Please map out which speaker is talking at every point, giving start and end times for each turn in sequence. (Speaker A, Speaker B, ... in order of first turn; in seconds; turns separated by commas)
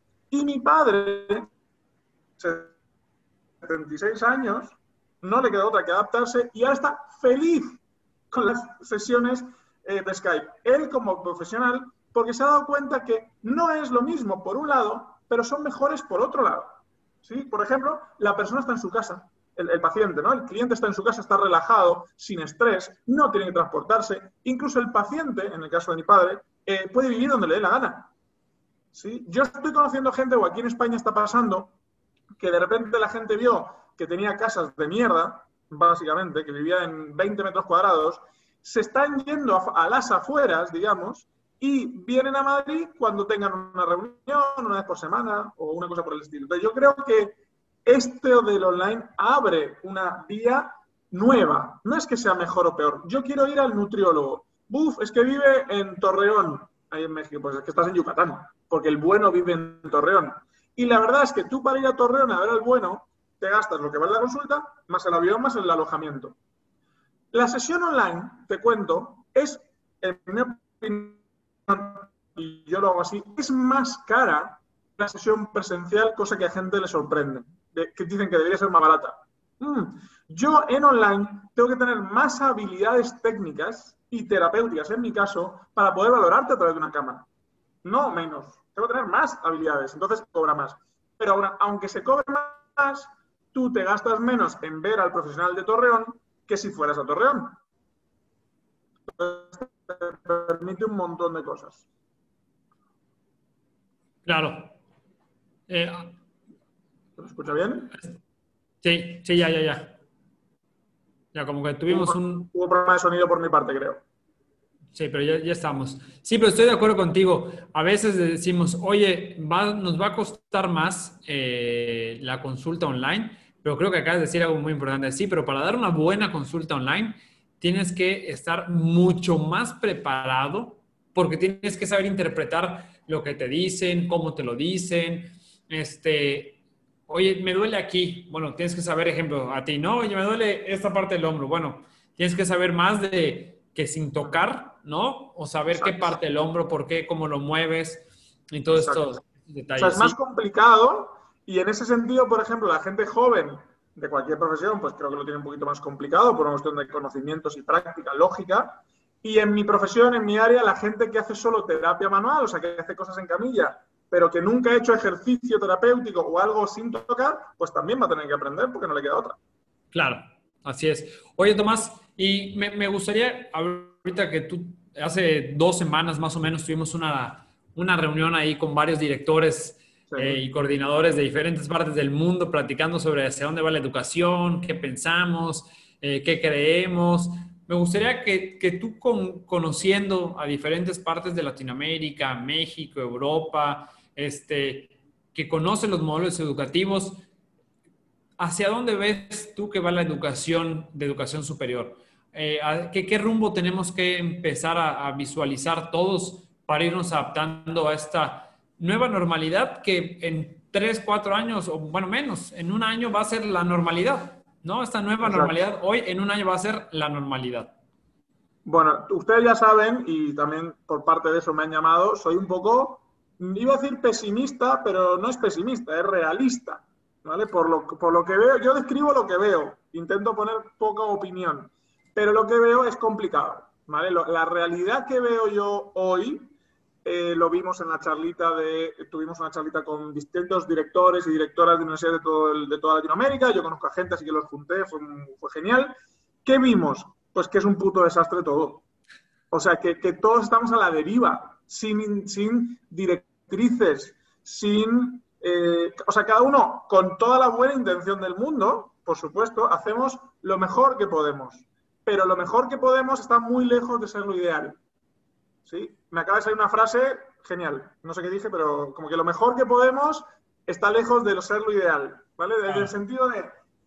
Speaker A: 0.3-1.5, Speaker A: 2.4-2.7, Speaker A: 3.6-7.8, Speaker A: 8.3-28.1, Speaker A: 28.9-31.7, Speaker A: 32.4-66.3, Speaker A: 67.3-87.2, Speaker A: 87.8-97.6, Speaker A: 99.2-101.8, Speaker B: 104.2-104.7, Speaker B: 105.7-106.1, Speaker A: 107.2-108.0, Speaker B: 108.8-110.0, Speaker B: 111.3-112.5, Speaker A: 111.9-114.0, Speaker B: 114.9-150.2, Speaker A: 145.7-146.2, Speaker A: 148.7-149.1, Speaker A: 149.8-169.4, Speaker B: 169.9-197.2, Speaker A: 180.1-180.4, Speaker B: 198.4-217.7, Speaker A: 215.2-215.6, Speaker A: 218.7-248.8, Speaker A: 249.5-264.8, Speaker A: 265.7-273.5, Speaker B: 272.7-272.9